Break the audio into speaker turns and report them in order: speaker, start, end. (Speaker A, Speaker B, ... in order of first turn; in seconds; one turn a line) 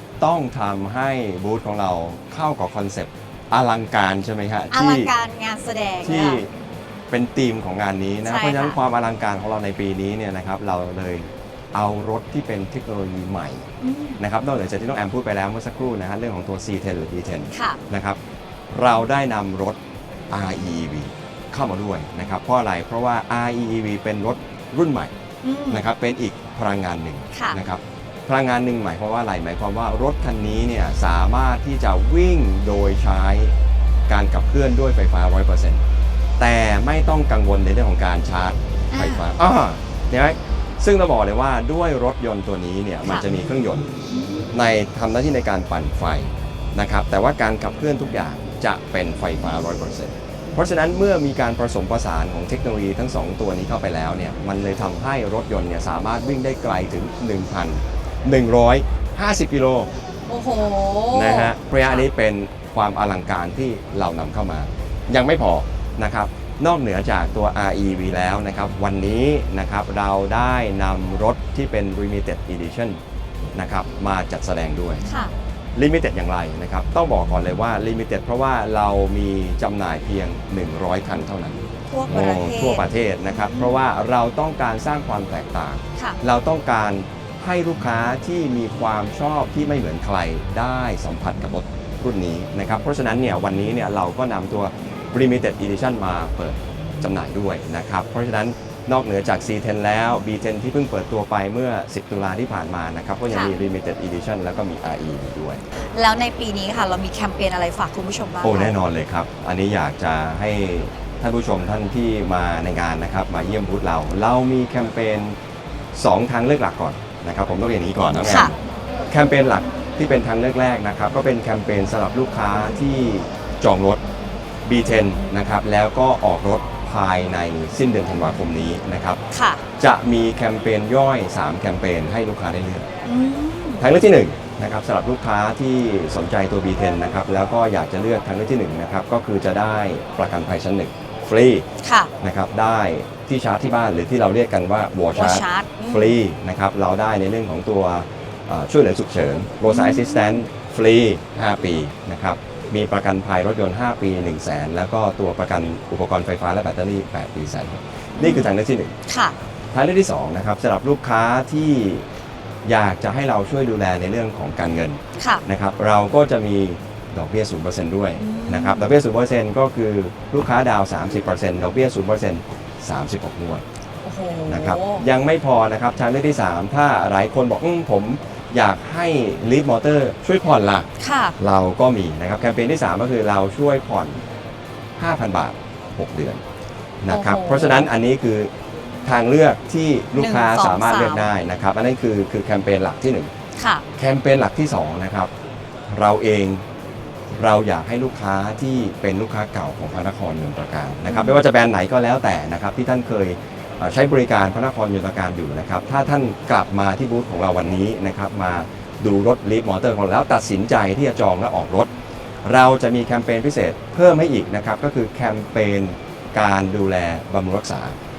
Speaker A: 0.2-5.1
Speaker B: 4.7-6.4
Speaker A: 6.0-6.5
Speaker A: 7.1-13.7
Speaker B: 8.2-8.8
Speaker B: 13.8-14.2
Speaker A: 14.2-18.2
Speaker B: 17.5-17.8
Speaker A: 18.7-19.8
Speaker A: 20.3-25.1
Speaker B: 25.4-25.9
Speaker A: 25.7-33.5
Speaker B: 27.3-27.6
Speaker A: 34.1-35.8
Speaker A: 36.4-43.9
Speaker B: 38.9-39.2
Speaker B: 43.0-43.3
Speaker B: 44.1-44.5
Speaker A: 44.5-59.9
Speaker B: 60.3-62.0
Speaker A: 61.1-73.0
Speaker A: 73.5-75.0
Speaker B: 75.0-75.3
Speaker A: 75.8-105.6
Speaker B: 81.9-83.8
Speaker B: 103.3-103.5
Speaker B: 105.8-108.7
Speaker A: 108.4-115.3
Speaker A: 115.9-118.6
Speaker B: 118.2-118.5
Speaker A: 119.1-124.0
Speaker A: 124.7-129.2
Speaker B: 129.3-129.6
Speaker A: 129.8-132.9
Speaker B: 133.1-133.9
Speaker A: 133.8-141.7
Speaker B: 141.8-142.1
Speaker A: 142.2-158.9
Speaker B: 145.1-146.2
Speaker B: 149.7-150.4
Speaker B: 158.2-158.5
Speaker B: 159.1-159.3
Speaker A: 159.7-162.1
Speaker A: 162.7-173.6
Speaker B: 165.2-165.4
Speaker B: 168.2-168.9
Speaker B: 174.0-175.1
Speaker A: 174.5-180.9
Speaker B: 181.0-181.3
Speaker A: 181.4-184.2
Speaker A: 185.0-186.4
Speaker A: 187.0-188.5
Speaker B: 187.1-187.9
Speaker A: 189.1-193.3
Speaker B: 190.2-191.3
Speaker B: 193.6-193.8
Speaker A: 194.0-195.3
Speaker A: 195.9-196.6
Speaker A: 197.3-211.9
Speaker B: 201.1-201.4
Speaker A: 212.4-217.9